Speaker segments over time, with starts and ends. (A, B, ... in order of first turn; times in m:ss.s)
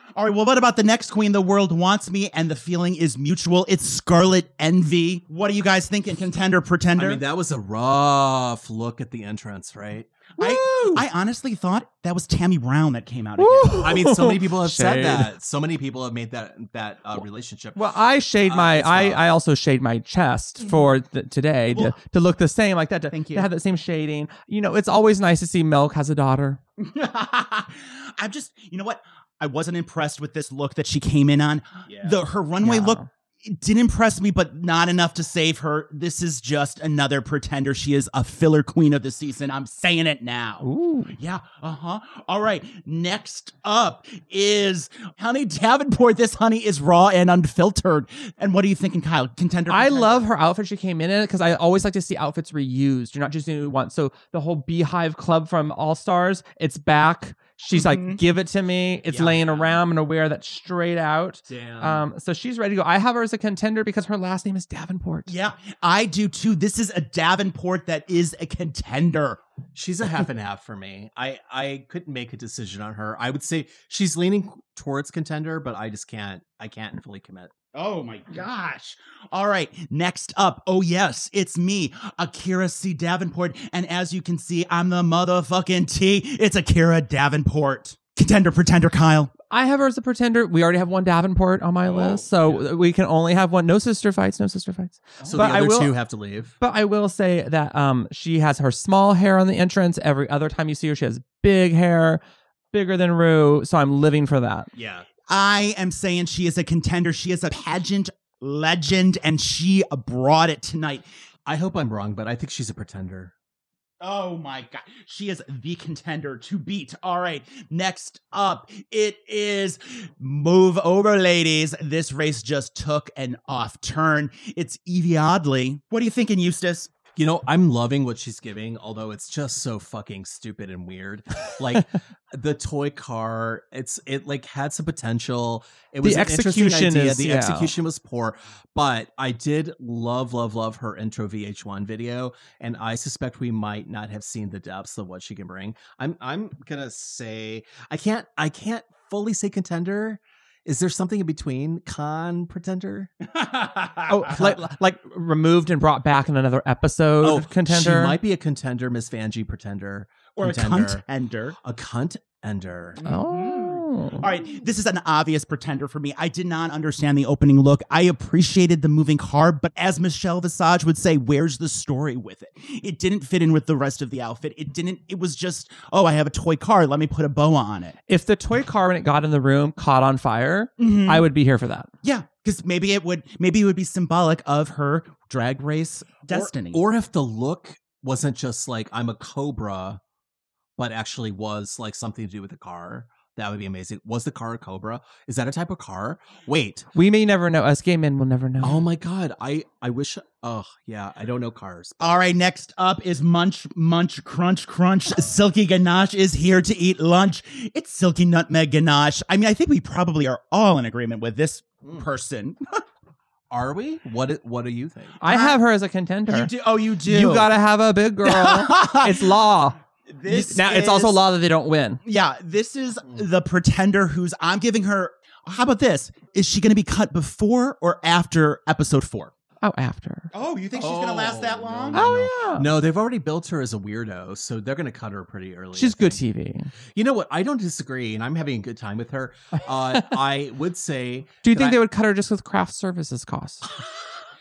0:00.2-0:07.2 A
0:07.0-0:10.1 B
0:10.4-0:14.0 A
0:10.4-0:11.0 C
0:13.4-0:15.3 C
0:13.8-0:19.3 B
0:17.8-0:26.6 C
0:23.1-0:23.5 A
0:26.8-0:50.3 A
0:31.9-0:32.2 B
0:32.6-0:33.1 C
0:40.6-0:41.1 C
0:49.7-1:05.3 C
0:57.7-0:58.2 A
0:59.1-0:59.8 B
1:01.5-1:02.0 B
1:05.3-1:09.4 A
1:09.8-1:17.5 B
1:17.7-1:29.3 A
1:29.5-1:36.0 C
1:32.0-1:32.2 A
1:35.2-1:36.6 B
1:36.6-1:42.2 C
1:42.7-1:44.7 C
1:44.8-1:45.1 B
1:45.3-1:51.1 A
1:51.5-1:53.3 B
1:54.0-2:06.9 A
2:07.2-2:33.1 B
2:16.0-2:17.7 C
2:33.3-2:34.5 A
2:34.1-2:38.2 C
2:37.2-2:41.0 B
2:40.4-2:41.6 A
2:41.6-2:43.0 B
2:43.0-2:58.0 A
2:43.0-2:44.2 C
2:58.1-3:01.9 C
3:00.8-3:01.3 A
3:02.0-3:06.8 A
3:06.3-3:10.0 B
3:10.8-3:16.9 B
3:16.9-3:18.8 C
3:18.6-3:22.2 B
3:22.0-3:32.8 A
3:33.5-3:35.2 B
3:35.2-3:36.5 C
3:35.2-3:35.6 A
3:36.3-3:37.5 A
3:37.0-3:42.0 C
3:38.2-3:39.4 A
3:40.1-3:41.2 A
3:42.0-3:49.3 A
3:49.6-3:50.3 C
3:50.3-3:52.1 A
3:50.8-3:56.2 B
3:51.9-3:52.7 C
3:55.7-3:56.7 C
3:56.9-4:01.8 B
4:01.4-4:03.6 C